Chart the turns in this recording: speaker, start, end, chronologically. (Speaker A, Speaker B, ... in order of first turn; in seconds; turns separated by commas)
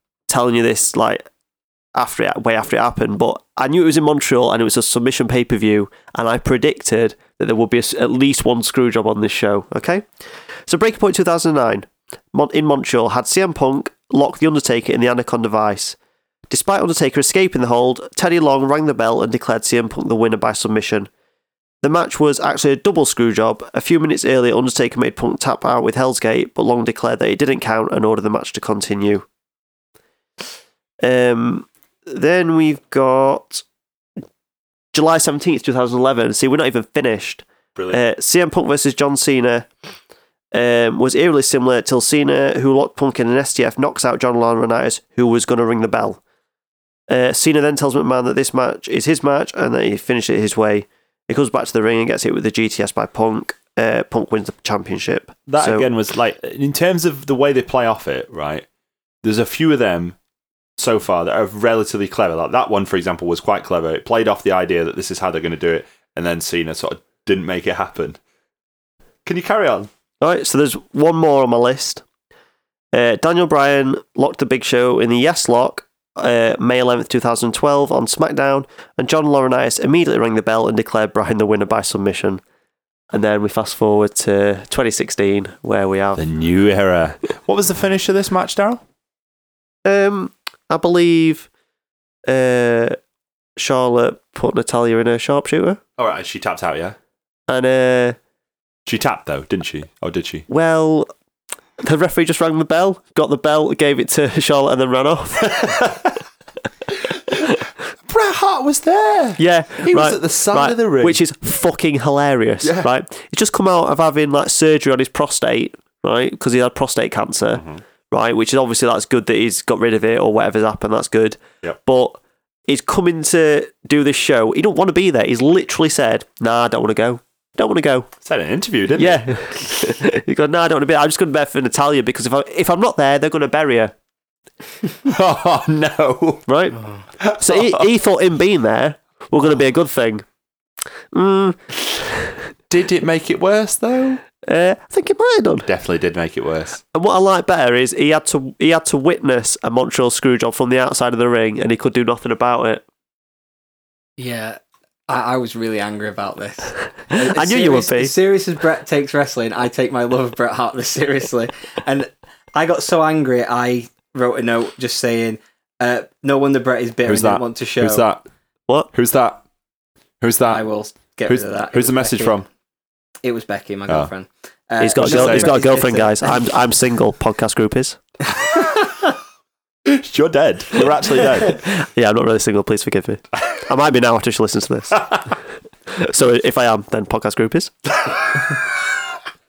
Speaker A: 0.3-1.2, Speaker A: 1.9-10.1, Speaker A: 10.7-15.9, Speaker A: 16.5-21.1, Speaker A: 21.8-29.2, Speaker A: 31.0-33.6, Speaker A: 34.9-39.7, Speaker B: 37.8-38.0, Speaker A: 40.5-46.2, Speaker A: 47.1-55.9, Speaker B: 55.5-58.6, Speaker B: 59.2-60.1, Speaker B: 60.8-68.2, Speaker B: 69.2-69.9, Speaker A: 70.2-72.0, Speaker A: 72.9-82.4, Speaker A: 83.1-86.2, Speaker B: 86.2-88.8, Speaker A: 89.8-91.5, Speaker A: 92.3-93.0, Speaker A: 93.6-95.8, Speaker B: 96.0-97.0, Speaker A: 97.5-98.2, Speaker B: 98.8-100.5, Speaker A: 100.5-101.1, Speaker A: 101.8-106.0, Speaker B: 107.3-111.2, Speaker A: 109.4-128.1, Speaker B: 112.6-112.9, Speaker B: 117.5-117.8, Speaker B: 128.2-129.2, Speaker A: 128.9-133.9, Speaker B: 135.0-136.4, Speaker A: 136.5-140.2, Speaker B: 137.2-137.8, Speaker A: 141.1-142.5, Speaker B: 142.7-144.2, Speaker A: 144.4-145.7, Speaker B: 145.7-146.8, Speaker A: 146.9-152.8, Speaker C: 154.2-168.0, Speaker A: 157.1-158.1, Speaker B: 167.1-168.2, Speaker B: 168.9-169.4, Speaker B: 170.2-170.6, Speaker C: 170.5-172.4, Speaker B: 171.3-172.4, Speaker C: 173.2-176.5, Speaker A: 174.8-178.0, Speaker B: 174.9-175.8, Speaker B: 179.8-181.6, Speaker A: 181.4-185.3, Speaker A: 185.9-187.7